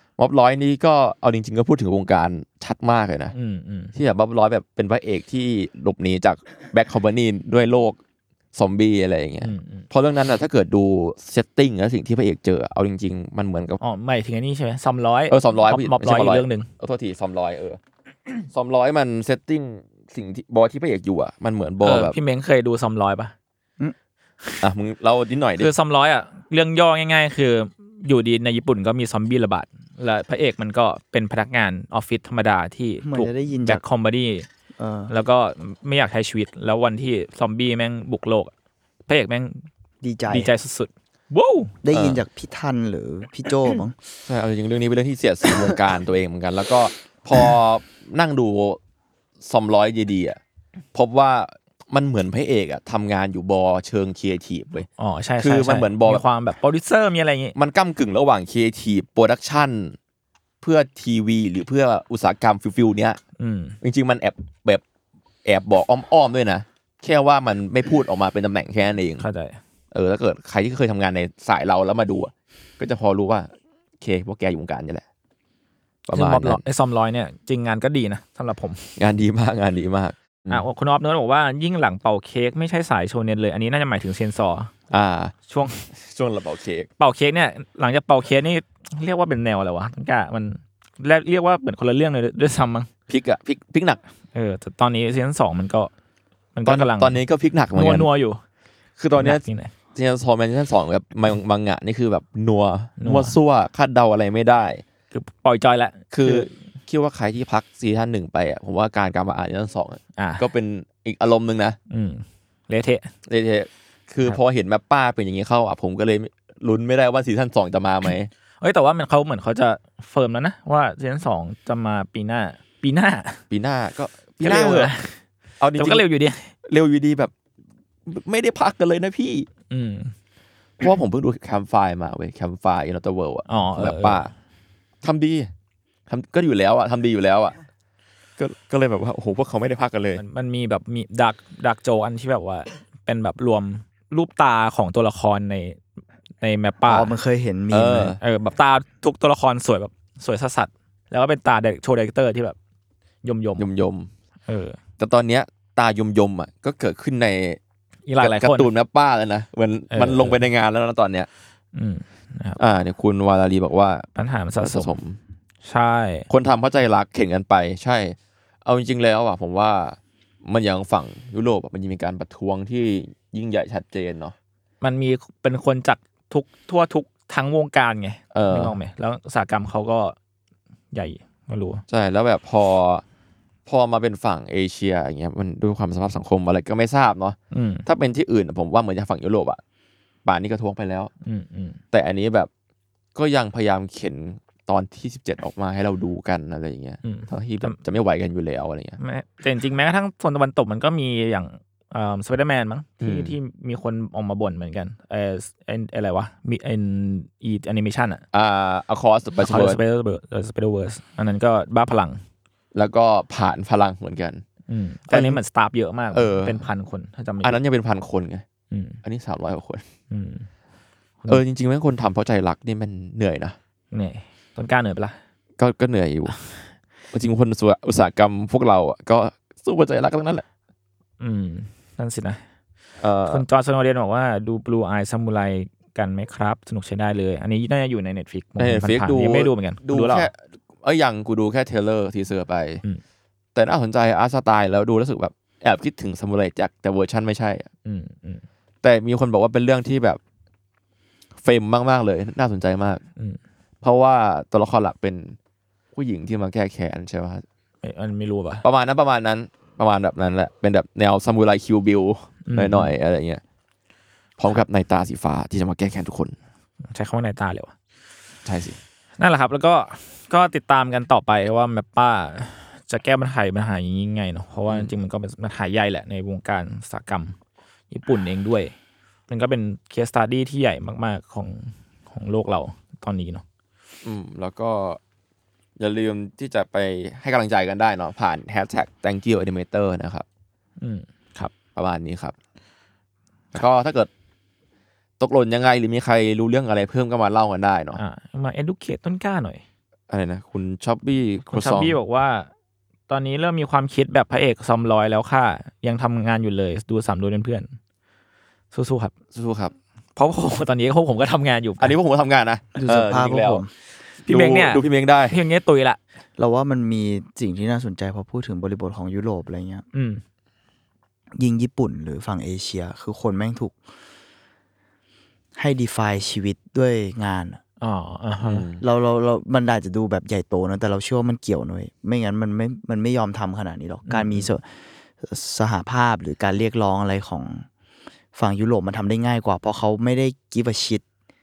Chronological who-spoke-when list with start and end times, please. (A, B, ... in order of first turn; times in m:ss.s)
0:00.2-0:03.3 A
0:03.3-0:03.9 B
0:04.0-0:08.0 A
0:08.5-0:13.8 A
0:09.4-0:09.9 B
0:13.8-0:16.7 B
0:15.3-0:17.8 A
0:18.5-0:22.2 A
0:21.8-0:23.3 B
0:24.6-0:25.7 A
0:25.6-0:34.5 B
0:33.0-0:33.8 C
0:34.8-0:35.1 C
0:35.1-0:38.5 B
0:39.1-0:39.6 B
0:40.0-0:40.5 C
0:40.3-0:41.7 B
0:41.8-0:44.0 C
0:41.9-0:42.2 A
0:44.3-0:48.8 A
0:49.4-0:50.4 A
0:50.9-0:54.9 A
0:55.0-0:57.6 B
0:55.4-0:56.2 A
0:57.6-1:00.0 A
1:00.6-1:03.2 A
1:03.4-1:03.8 B
1:03.8-1:04.8 A
1:05.4-1:09.2 A
1:09.2-1:09.6 B
1:09.9-1:15.0 A
1:16.1-1:16.6 A
1:16.1-1:18.9 B
1:19.0-1:20.6 A
1:20.5-1:24.7 B
1:24.9-1:25.3 A
1:25.5-1:25.8 B
1:25.9-1:26.9 A
1:27.0-1:32.9 B
1:33.1-1:34.0 A
1:34.3-1:35.9 B
1:36.6-1:37.2 B
1:36.7-1:38.1 A
1:37.7-1:38.4 B
1:39.0-1:39.4 A
1:39.2-1:39.7 B
1:40.0-1:44.8 A
1:43.0-1:43.4 B
1:45.1-1:46.5 B
1:46.1-1:51.8 A
1:50.2-1:50.4 B
1:51.9-1:53.1 B
1:53.3-1:58.3 A
1:58.6-2:03.4 B
2:03.5-2:04.9 A
2:04.4-2:05.2 B
2:05.6-2:06.0 A
2:05.8-2:06.5 B
2:06.6-2:07.3 A
2:08.1-2:09.5 A
2:09.7-2:10.1 B
2:10.8-2:14.3 A
2:13.5-2:14.2 B
2:15.0-2:15.5 A
2:16.1-2:17.6 A
2:18.4-2:20.2 A
2:20.2-2:25.8 B
2:26.4-2:27.2 B
2:26.9-2:28.2 C
2:27.7-2:28.2 A
2:28.2-2:32.6 B
2:33.2-2:33.7 B
2:33.6-2:34.1 A
2:34.5-2:34.8 B
2:35.0-2:37.6 A
2:38.1-2:38.7 B
2:38.2-2:41.3 A
2:39.9-2:40.4 B
2:41.7-2:42.6 B
2:42.6-2:44.1 A
2:44.2-2:45.0 B
2:44.6-2:45.2 A
2:45.6-2:46.3 B
2:46.3-2:54.4 A
2:54.8-3:00.2 B
2:58.3-2:58.8 A
3:00.9-3:01.8 B
3:01.9-3:03.0 A
3:03.7-3:09.6 A
3:07.5-3:07.9 B
3:10.2-3:11.1 A
3:11.2-3:11.8 B
3:11.9-3:12.5 A
3:13.2-3:19.0 A
3:17.0-3:17.8 B
3:19.0-3:28.2 B
3:23.0-3:23.4 A
3:28.3-3:29.8 A
3:29.4-3:32.2 B
3:32.7-3:34.4 A
3:34.7-3:37.6 B
3:35.1-3:35.4 A
3:36.1-3:36.6 A
3:37.4-3:38.4 A
3:38.7-3:39.0 B
3:39.0-3:39.8 A
3:40.1-3:40.5 B
3:41.3-3:43.6 A
3:43.9-3:45.2 B
3:45.6-3:46.4 A
3:47.1-3:50.4 A
3:51.2-3:52.4 B
3:53.0-3:53.4 A
3:53.3-4:00.3 B
3:58.6-4:02.8 A
4:03.6-4:07.7 A
4:07.8-4:08.4 B
4:08.8-4:10.2 A
4:11.4-4:13.0 A
4:13.8-4:15.4 A
4:16.0-4:17.4 A
4:17.8-4:18.6 B
4:18.6-4:23.4 A
4:22.4-4:22.9 B
4:24.4-4:26.4 A
4:26.9-4:27.7 B
4:28.4-4:28.8 A
4:29.2-4:37.4 B
4:37.9-4:38.7 B
4:39.3-4:43.4 B
4:44.0-4:45.0 A
4:45.8-4:50.3 A
4:50.8-4:51.5 B
4:51.8-4:52.4 A
4:53.5-4:54.1 A
4:55.2-4:58.0 A
4:58.0-4:59.6 B
5:00.1-5:02.0 A
5:01.5-5:02.5 B
5:03.1-5:07.7 B
5:08.7-5:09.1 B
5:09.3-5:09.7 A
5:10.2-5:12.0 B
5:11.8-5:13.6 A
5:12.8-5:13.7 C
5:14.3-5:15.4 A
5:14.3-5:16.0 B
5:16.4-5:19.8 C
5:19.9-5:20.2 B
5:21.4-5:23.7 C
5:25.6-5:27.6 C
5:27.8-5:28.6 B
5:28.4-5:28.8 A
5:28.8-5:34.6 C
5:34.1-5:34.5 B
5:35.2-5:37.7 C
5:38.4-5:41.0 C